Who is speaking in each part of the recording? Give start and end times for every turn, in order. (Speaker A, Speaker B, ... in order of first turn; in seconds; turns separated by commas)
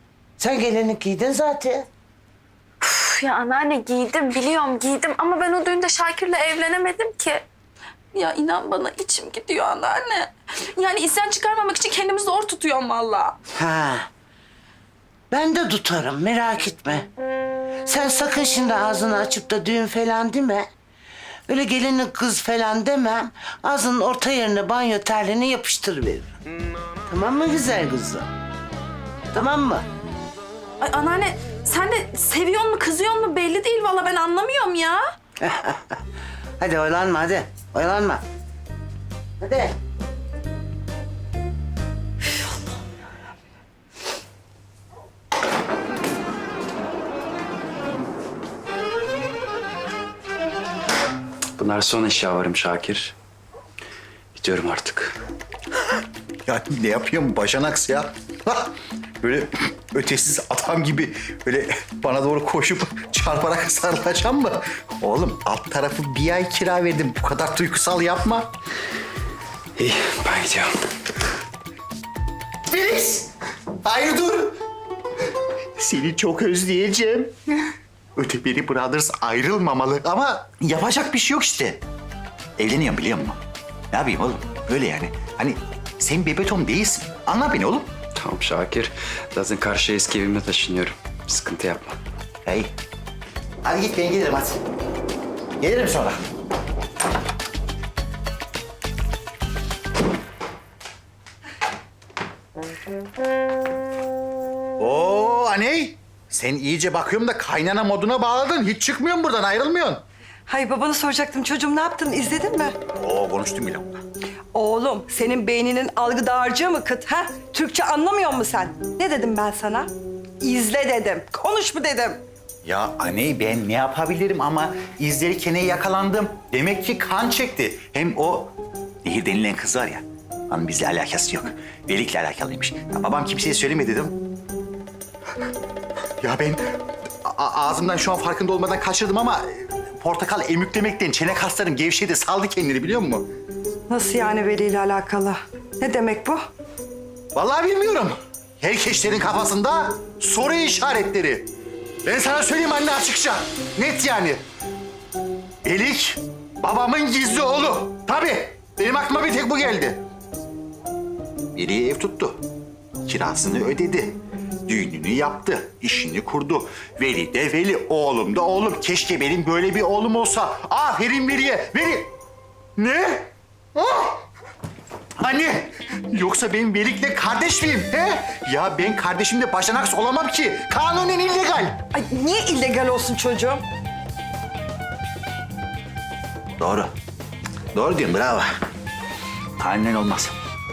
Speaker A: 0.4-1.9, Speaker B: 2.8-7.5, Speaker B: 8.1-13.4, Speaker A: 13.6-14.1, Speaker A: 15.3-17.1, Speaker A: 17.8-20.7, Speaker A: 21.5-26.3, Speaker A: 27.1-28.3, Speaker A: 29.3-29.9, Speaker B: 30.8-35.1, Speaker A: 35.4-36.0, Speaker A: 36.6-38.2, Speaker A: 39.4-39.8, Speaker C: 51.6-53.1, Speaker C: 54.4-55.2, Speaker D: 56.5-68.5, Speaker C: 69.8-70.7, Speaker D: 72.7-73.3, Speaker D: 73.8-74.5, Speaker D: 75.8-81.8, Speaker D: 82.6-83.4, Speaker D: 83.9-87.9, Speaker C: 88.2-92.0, Speaker D: 92.5-92.7, Speaker D: 93.6-94.6, Speaker D: 95.6-96.2, Speaker D: 104.8-110.0, Speaker E: 110.5-112.8, Speaker D: 113.0-114.0, Speaker E: 114.5-122.2, Speaker D: 122.6-134.2, Speaker D: 136.2-143.3, Speaker E: 143.9-146.5, Speaker D: 147.3-151.5, Speaker D: 152.1-154.4, Speaker D: 155.6-160.0, Speaker D: 161.6-162.4, Speaker D: 163.0-164.2, Speaker D: 164.7-172.1, Speaker D: 172.8-174.2, Speaker D: 175.2-181.8, Speaker E: 181.9-183.6, Speaker D: 186.6-186.9, Speaker D: 187.7-188.5, Speaker D: 189.6-190.4